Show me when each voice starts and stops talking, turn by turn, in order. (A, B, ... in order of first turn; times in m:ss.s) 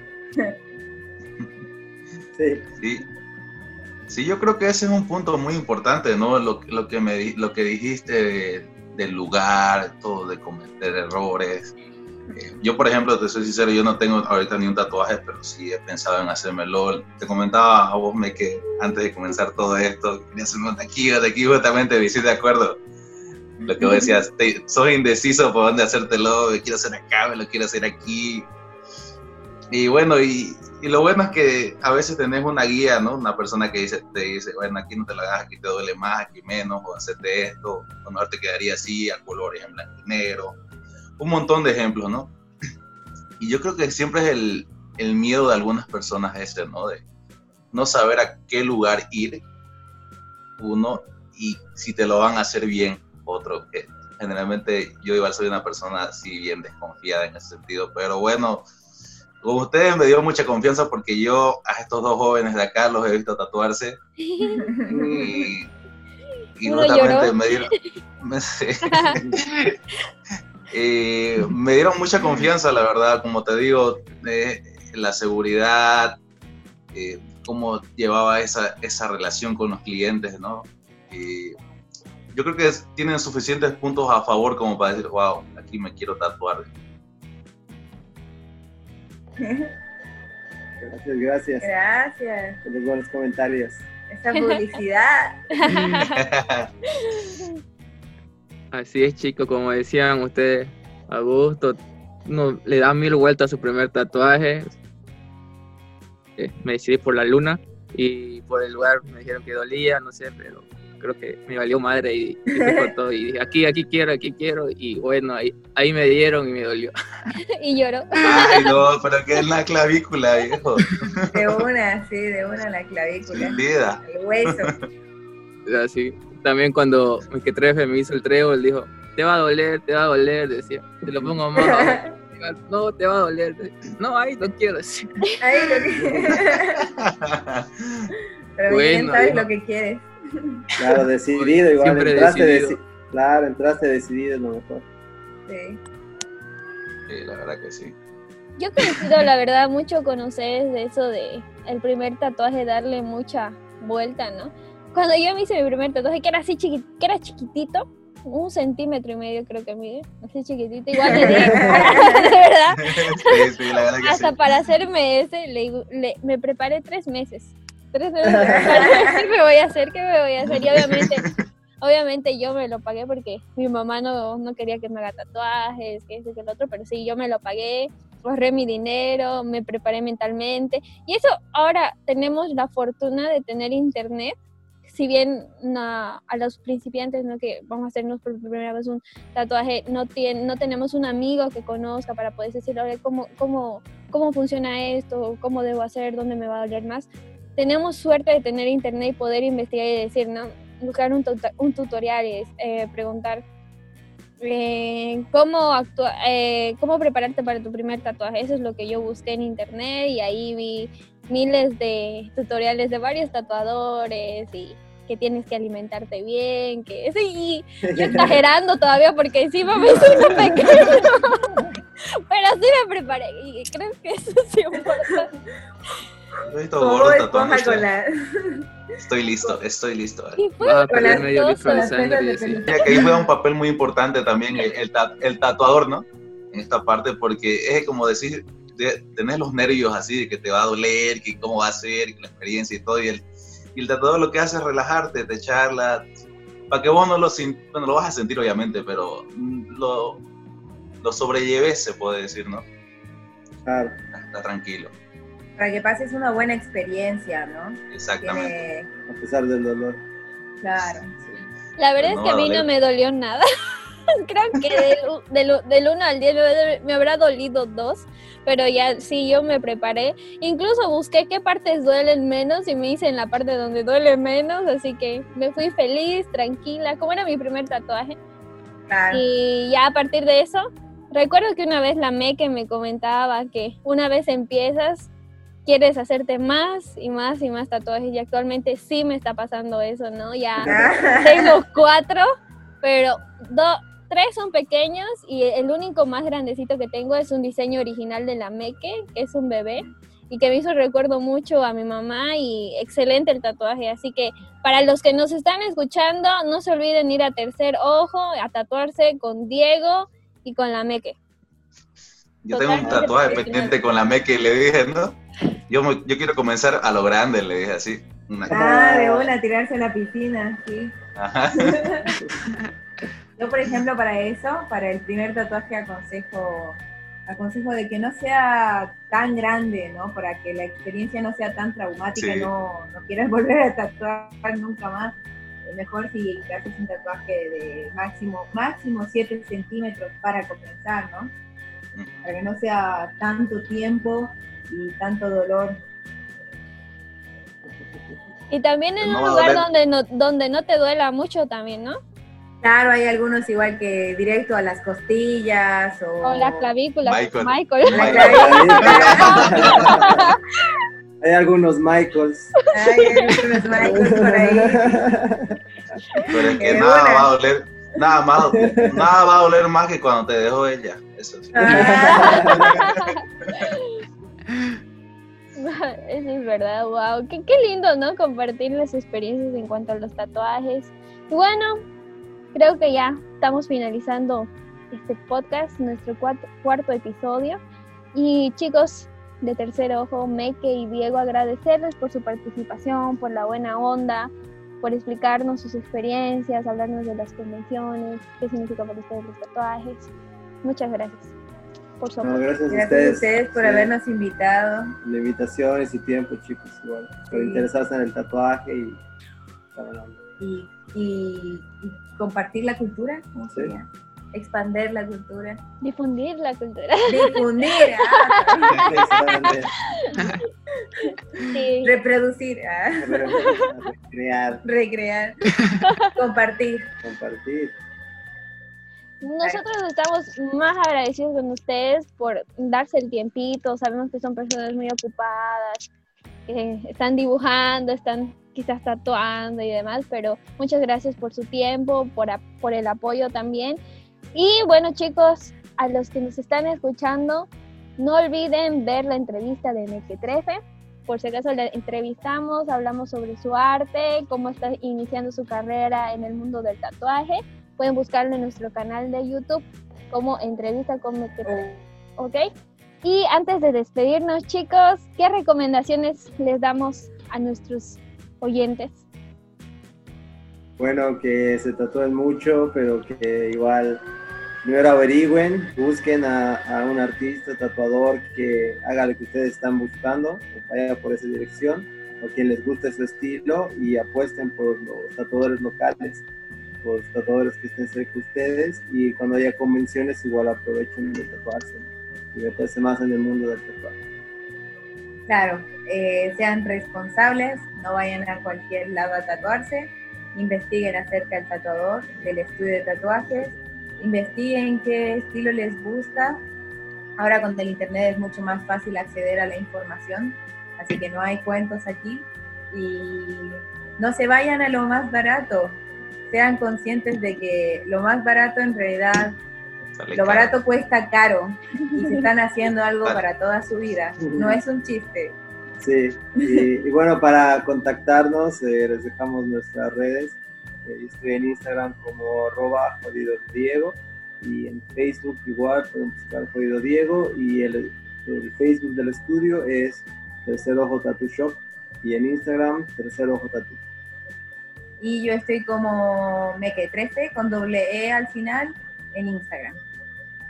0:02.4-0:02.6 A
0:02.8-0:03.1 B
0:04.1-0:11.7 B
0:12.3-0:22.8 B
0:23.6-0:28.5 B
0:23.8-0:24.1 C
0:29.7-0:40.6 B
0:41.2-0:42.3 B
0:43.4-0:47.0 B
0:47.7-0:49.4 B
0:50.6-0:58.6 B
0:59.4-1:04.0 B
1:04.2-1:04.6 C
1:04.4-1:05.1 D
1:04.9-1:05.5 A
1:04.9-1:05.7 B
1:06.6-1:09.8 B
1:06.6-1:07.8 C
1:08.8-1:09.2 C
1:10.7-1:16.2 B
1:16.9-1:21.6 B
1:22.3-1:26.7 B
1:29.4-1:29.7 D
1:30.8-1:31.7 A
1:31.6-1:32.6 D
1:32.6-1:33.8 A
1:34.1-1:36.0 D
1:35.6-1:36.2 C
1:35.7-1:36.7 B
1:37.0-1:37.5 C
1:38.7-1:44.7 E
1:46.4-1:56.9 E
1:52.6-1:52.9 D
1:57.5-1:58.8 C
1:58.2-2:01.6 B
2:01.3-2:04.7 D
2:03.3-2:04.7 B
2:05.7-2:15.8 E
2:11.6-2:12.1 D
2:15.4-2:16.9 D
2:16.0-2:16.3 A
2:16.8-2:18.1 B
2:18.6-2:20.6 D
2:18.7-2:19.5 E
2:20.8-2:24.8 A
2:21.4-2:22.8 E
2:25.5-2:25.8 D
2:27.1-2:27.9 B
2:28.6-2:43.4 C
2:41.0-2:42.3 D
2:41.3-2:41.9 A
2:42.9-2:44.4 B
2:44.0-2:51.3 C
2:48.3-2:48.7 A
2:48.4-2:49.2 D
2:50.5-2:51.1 B
2:51.8-3:23.4 C
3:24.4-3:45.3 C
3:37.8-3:38.4 A
3:39.8-3:40.9 A
3:40.0-3:40.4 D
3:46.5-3:47.8 B
3:46.8-3:48.7 D
3:49.0-3:50.4 B
3:50.4-3:52.0 C
3:50.6-3:52.6 E
3:50.9-3:53.3 D
3:52.7-4:06.1 B
4:06.7-4:10.2 B
4:11.0-4:12.7 B
4:13.6-4:14.0 A
4:14.1-4:14.9 B
4:15.6-4:18.9 D
4:17.9-4:18.6 B
4:19.1-4:20.0 A
4:20.6-4:21.5 D
4:21.8-4:23.5 C
4:22.0-4:22.6 B
4:24.1-4:38.2 C
4:38.9-4:39.2 D
4:39.1-4:45.1 C
4:45.7-4:52.3 C
4:50.6-4:51.3 A
4:50.6-4:51.5 D
4:52.8-5:11.2 C
5:12.4-5:18.6 B
5:12.5-5:13.7 C
5:13.2-5:13.8 D
5:18.5-5:19.3 A
5:18.5-5:20.9 D
5:21.2-5:22.0 B
5:21.6-5:22.2 D
5:23.4-5:35.2 D
5:32.2-5:32.5 B
5:35.7-5:41.3 D
5:42.0-5:42.2 B
5:42.2-5:45.8 D
5:48.5-5:52.0 C
5:49.0-5:49.6 B
5:52.6-5:56.7 D
5:56.2-6:00.4 C
5:57.0-6:00.1 B
5:57.9-6:00.0 D
5:58.2-6:00.2 A
6:01.2-6:02.5 A
6:02.7-6:05.0 D
6:02.8-6:03.4 C
6:03.7-6:06.0 A
6:06.3-6:13.1 B
6:06.4-6:07.3 D
6:08.5-6:09.1 A
6:11.5-6:12.6 D
6:11.7-6:12.7 A
6:11.9-6:14.0 C
6:15.6-6:21.8 C
6:22.5-6:27.6 C
6:28.1-6:40.1 C
6:40.6-6:41.3 C
6:42.0-6:42.4 C
6:42.2-6:43.9 A
6:42.7-6:44.9 D
6:45.0-6:49.0 A
6:47.3-6:47.7 D
6:49.7-6:50.2 A
6:50.4-6:55.6 D
6:55.8-7:00.4 C
6:57.1-6:59.0 D
6:58.7-6:59.7 A
7:01.0-7:03.4 D
7:01.5-7:02.0 C
7:03.0-7:04.6 A
7:04.6-7:05.4 D
7:05.8-7:06.1 C
7:06.2-7:06.9 D
7:07.0-7:07.8 A
7:09.2-7:15.9 C
7:16.5-7:23.8 C
7:24.3-7:41.6 C
7:41.5-7:41.8 D
7:42.2-7:42.5 C
7:43.0-7:49.0 C
7:50.8-7:54.0 A
7:54.6-8:06.2 A
8:06.8-8:14.0 A
8:15.3-8:26.4 D
8:27.2-8:39.4 D
8:40.0-8:40.6 B
8:40.2-8:45.4 D
8:44.3-8:44.6 A
8:45.8-9:03.8 A
9:05.0-9:09.8 D